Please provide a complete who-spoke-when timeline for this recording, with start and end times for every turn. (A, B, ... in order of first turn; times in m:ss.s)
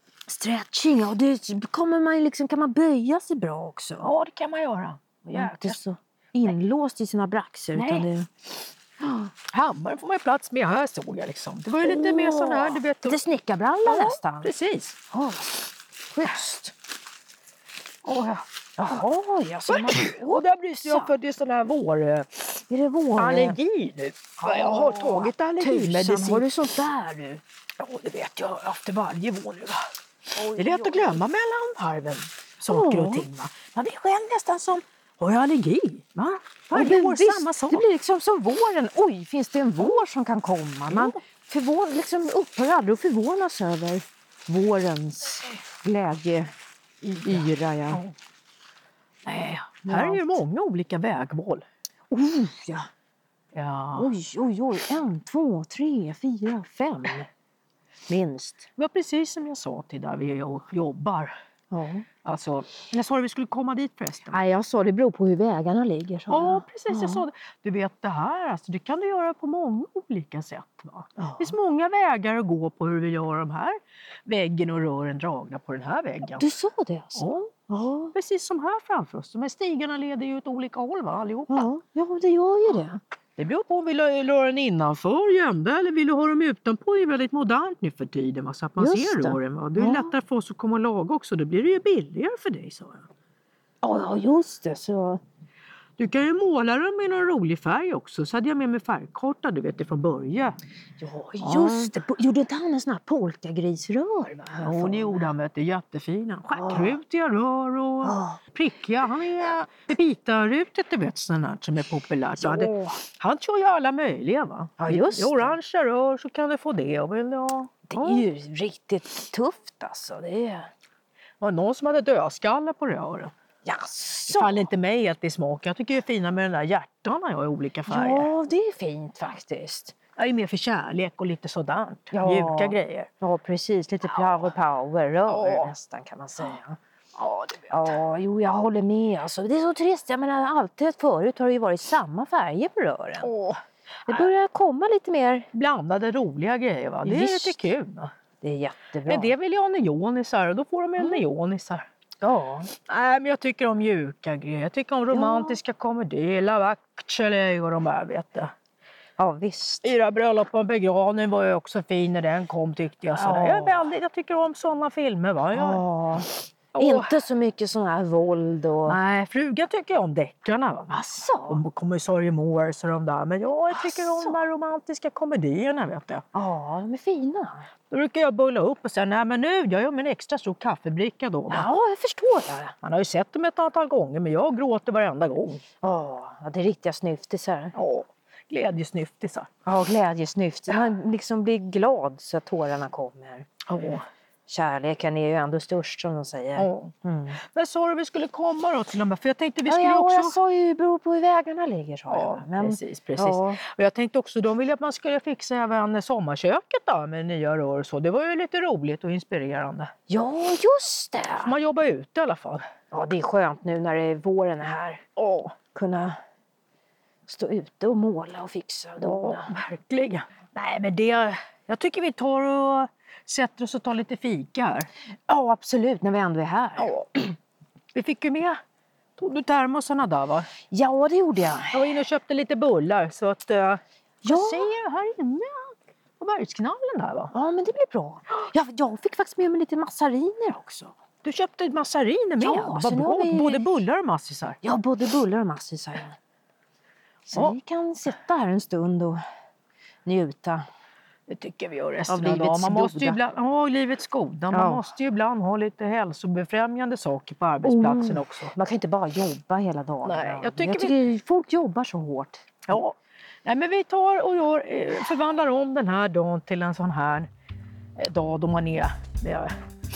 0:00.3-0:04.1 A
0:04.0-0:05.8 B
0:05.3-0:08.3 A
0:07.7-0:08.1 B
0:09.0-0:13.2 B
0:11.8-0:14.5 A
0:13.8-0:15.0 B
0:15.1-0:16.7 A
0:18.0-0:18.4 B
0:18.8-0:21.1 A
0:19.6-0:22.5 B
0:22.5-0:23.6 A
0:23.2-0:26.5 B
0:24.4-0:27.4 A
0:27.8-0:29.9 B
0:30.4-0:31.2 A
0:30.5-0:37.8 B
0:32.7-0:33.7 A
0:36.7-0:46.5 A
0:40.9-0:41.2 B
0:47.0-0:48.1 B
0:47.2-0:48.0 A
0:49.2-0:51.6 B
0:49.6-0:50.4 A
0:52.1-0:52.9 A
0:53.5-0:54.1 B
0:53.9-0:57.3 A
0:58.1-0:58.7 A
0:58.8-1:01.3 B
1:01.7-1:02.0 A
1:02.2-1:04.4 B
1:04.3-1:07.2 A
1:06.3-1:16.5 B
1:11.2-1:11.5 A
1:16.3-1:18.1 A
1:18.1-1:21.7 B
1:21.5-1:23.0 A
1:23.4-1:33.1 B
1:28.8-1:30.1 A
1:33.8-1:35.2 A
1:36.0-1:40.6 B
1:41.0-1:45.3 A
1:41.4-1:42.0 B
1:44.6-1:58.3 B
1:46.5-1:47.0 A
1:48.0-1:48.4 A
1:52.4-1:53.0 A
1:54.8-1:55.6 A
1:57.9-2:00.7 A
2:01.4-2:03.3 B
2:03.6-2:04.7 A
2:04.2-2:08.3 B
2:07.9-2:09.9 A
2:10.2-2:13.1 B
2:12.1-2:16.8 A
2:14.1-2:14.5 B
2:15.3-2:15.7 B
2:17.2-2:18.0 B
2:17.7-2:23.3 A
2:23.2-2:24.3 B
2:24.1-2:25.5 A
2:25.5-2:28.1 B
2:27.0-2:27.6 A
2:28.4-2:29.3 A
2:29.1-2:31.8 B
2:32.2-2:32.7 A
2:32.7-2:38.5 B
2:35.1-2:35.6 A
2:39.2-2:39.9 A
2:39.8-2:45.8 B
2:43.1-2:43.9 A
2:45.5-2:49.0 A
2:46.7-2:47.2 B
2:48.9-2:56.2 B
2:50.9-2:51.6 A
2:53.7-2:54.5 A
2:56.3-2:57.7 A
2:57.9-3:01.7 B
3:01.5-3:02.7 A
3:02.8-3:05.6 B
3:05.8-3:07.7 A
3:07.7-3:09.5 B
3:09.6-3:13.5 A
3:13.7-3:14.0 B
3:14.5-3:17.4 A
3:16.6-3:20.4 B
3:19.6-3:23.6 A
3:22.1-3:29.9 B
3:30.1-3:31.5 A
3:31.4-3:32.6 B
3:32.9-3:35.0 A
3:35.2-3:35.5 B
3:35.7-3:36.2 A
3:37.3-3:39.5 A
3:39.0-3:44.9 B
3:45.3-3:46.9 A
3:46.8-3:47.2 B
3:47.9-3:48.6 B
3:49.2-3:50.5 B
3:50.7-3:51.8 A
3:51.7-3:57.3 B
3:54.2-3:54.7 A
3:57.3-4:00.9 A
4:01.2-4:04.6 B
4:02.4-4:03.7 A
4:04.6-4:06.2 A
4:07.2-4:09.2 A
4:10.0-4:10.6 A
4:11.3-4:18.5 B
4:12.1-4:13.2 A
4:14.5-4:14.8 A
4:17.6-4:22.6 A
4:20.0-4:21.0 B
4:22.7-4:27.3 B
4:28.0-4:29.5 B